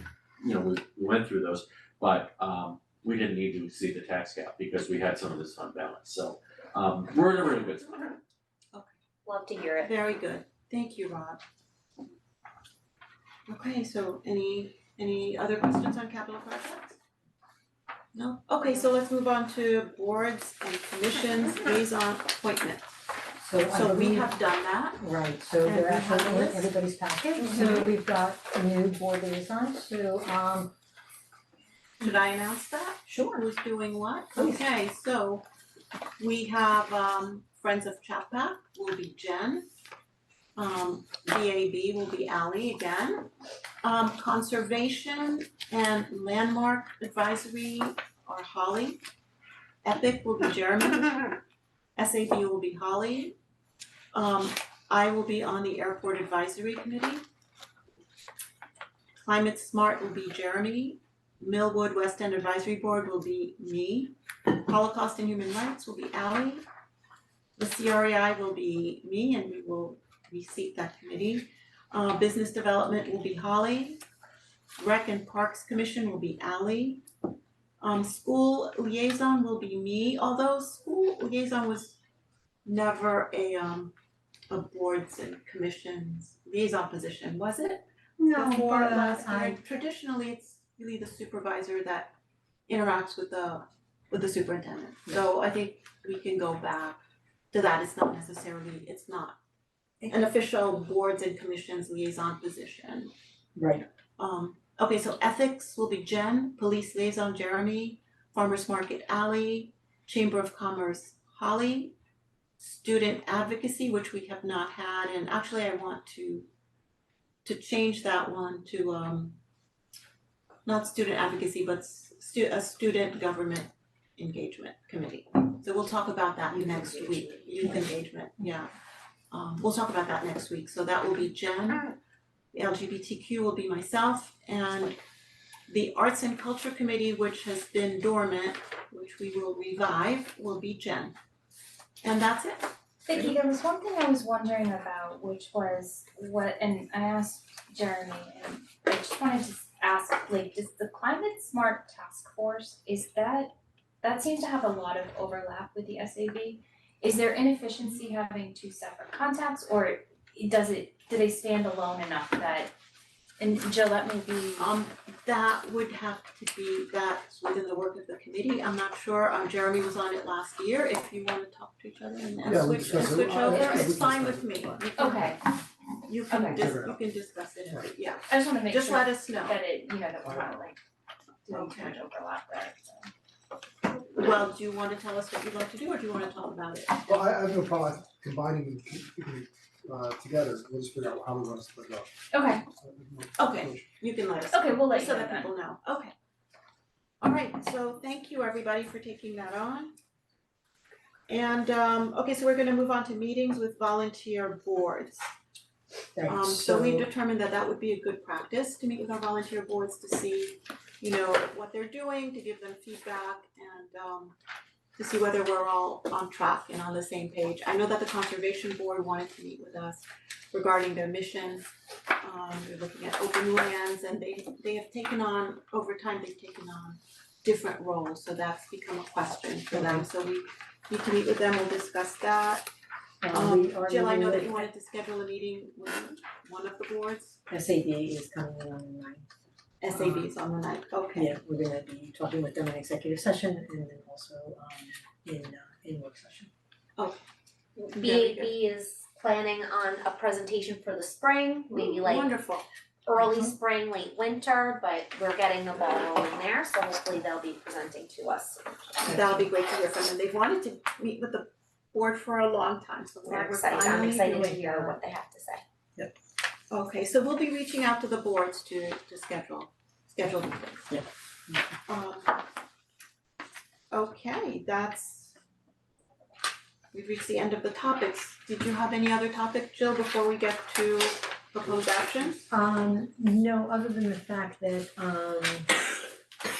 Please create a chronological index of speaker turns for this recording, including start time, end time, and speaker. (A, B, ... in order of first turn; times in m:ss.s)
0:00.4-0:08.1 A
0:09.2-0:09.9 B
0:09.8-0:11.4 C
0:13.5-0:17.0 C
0:18.1-0:22.9 C
0:23.4-0:24.4 D
0:23.6-0:25.0 C
0:25.0-0:30.7 D
0:25.6-0:26.7 C
0:32.0-0:35.4 C
0:33.1-0:33.4 D
0:34.4-0:34.6 D
0:36.2-0:39.6 C
0:40.6-0:43.3 C
0:43.8-0:49.0 C
0:49.8-0:51.4 C
0:52.0-0:53.3 C
0:54.1-0:57.2 C
0:59.2-1:06.6 C
1:07.6-1:14.0 C
1:14.8-1:17.0 C
1:17.8-1:22.0 C
1:22.6-1:23.9 C
1:24.5-1:32.1 C
1:28.2-1:29.6 D
1:32.7-1:37.0 C
1:37.5-1:39.4 C
1:40.1-1:43.1 C
1:43.6-1:43.8 D
1:44.2-1:51.9 C
1:52.6-1:56.4 C
1:57.4-1:59.4 C
2:00.6-2:08.7 C
2:09.3-2:12.0 C
2:12.5-2:15.0 C
2:15.7-2:21.1 C
2:22.0-2:22.7 C
2:23.0-2:42.7 E
2:43.4-2:44.7 E
2:44.6-2:55.4 C
2:52.4-2:55.0 F
2:53.4-2:53.8 E
2:55.0-2:55.4 E
2:56.0-2:59.6 C
2:56.3-2:56.7 E
2:56.5-2:57.0 F
2:57.6-2:57.9 F
2:58.3-3:00.8 E
3:00.2-3:00.5 F
3:01.4-3:03.1 E
3:01.5-3:02.0 C
3:04.0-3:07.2 C
3:07.1-3:12.1 F
3:12.3-3:12.6 E
3:12.8-3:14.0 F
3:13.4-3:16.1 C
3:14.5-3:15.5 E
3:17.2-3:19.9 C
3:21.3-3:25.2 C
3:26.2-3:27.1 D
3:26.3-3:34.4 C
3:35.0-3:41.6 C
3:42.2-3:52.7 C
3:49.7-3:50.0 D
3:53.2-3:54.7 D
3:53.3-3:57.4 C
3:57.5-3:59.3 D
3:59.8-4:01.3 C
3:59.9-4:00.3 D
4:01.2-4:06.5 D
4:07.0-4:07.2 C
4:07.8-4:12.3 B
4:07.9-4:08.6 C
4:11.7-4:12.6 C
4:13.0-4:18.6 B
4:13.1-4:13.5 D
4:19.0-4:24.6 C
4:19.1-4:19.4 D
4:23.2-4:25.6 B
4:23.7-4:25.0 D
4:26.7-4:30.9 C
4:30.9-4:31.7 D
4:31.9-4:32.4 C
4:33.9-4:35.4 C
4:36.9-4:42.4 C
4:42.5-4:45.8 D